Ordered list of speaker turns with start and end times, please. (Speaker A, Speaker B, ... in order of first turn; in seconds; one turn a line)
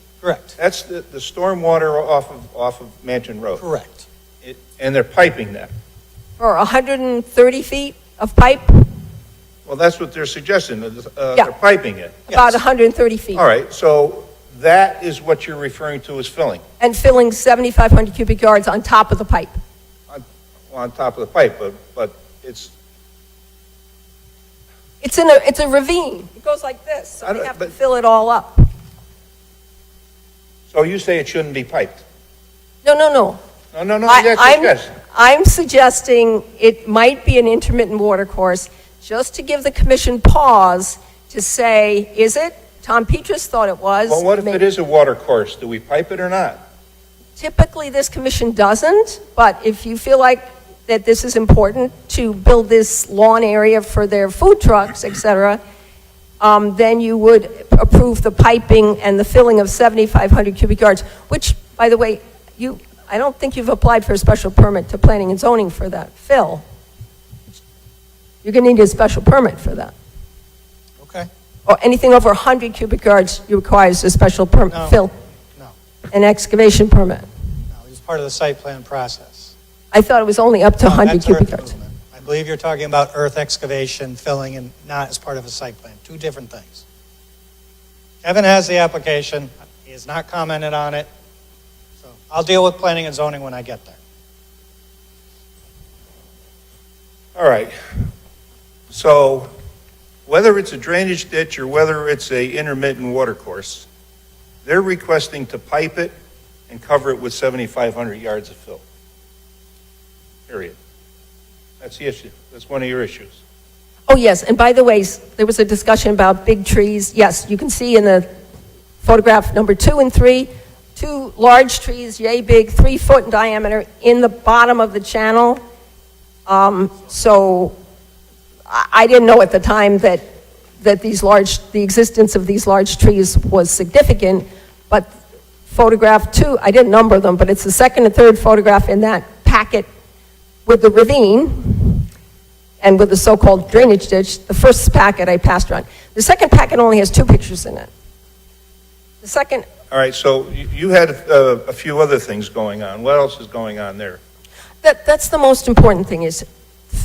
Speaker A: 0.2-0.6
Speaker B: 0.6-3.6
Speaker A: 3.6-4.0
Speaker B: 4.4-5.7
Speaker C: 6.4-8.9
Speaker B: 9.7-12.3
Speaker C: 12.3-13.4
Speaker B: 13.3-16.6
Speaker C: 16.8-19.6
Speaker B: 20.1-22.7
Speaker C: 25.0-28.6
Speaker B: 27.2-27.7
Speaker B: 30.7-32.0
Speaker C: 32.8-33.4
Speaker B: 33.7-34.9
Speaker C: 34.1-44.6
Speaker B: 44.1-46.6
Speaker C: 47.4-55.6
Speaker C: 56.4-66.6
Speaker C: 68.4-69.9
Speaker A: 71.0-71.3
Speaker C: 71.7-75.1
Speaker A: 74.7-75.0
Speaker C: 76.1-77.3
Speaker A: 77.7-79.5
Speaker C: 79.9-81.8
Speaker A: 80.8-86.8
Speaker A: 88.2-91.1
Speaker A: 92.0-94.0
Speaker B: 97.3-97.7
Speaker B: 98.9-99.5
Speaker B: 100.3-103.9
Speaker B: 104.6-106.1
Speaker B: 106.7-108.8
Speaker B: 110.5-110.8
Speaker B: 111.8-113.4
Speaker C: 114.1-118.3
Speaker C: 119.0-125.6
Speaker C: 126.5-127.8
Speaker C: 128.7-130.2
Speaker C: 130.8-135.1
Speaker C: 135.7-139.9
Speaker C: 140.7-142.1
Speaker C: 142.8-147.9
Speaker C: 149.2-149.7
Speaker B: 149.9-154.2
Speaker C: 154.8-156.4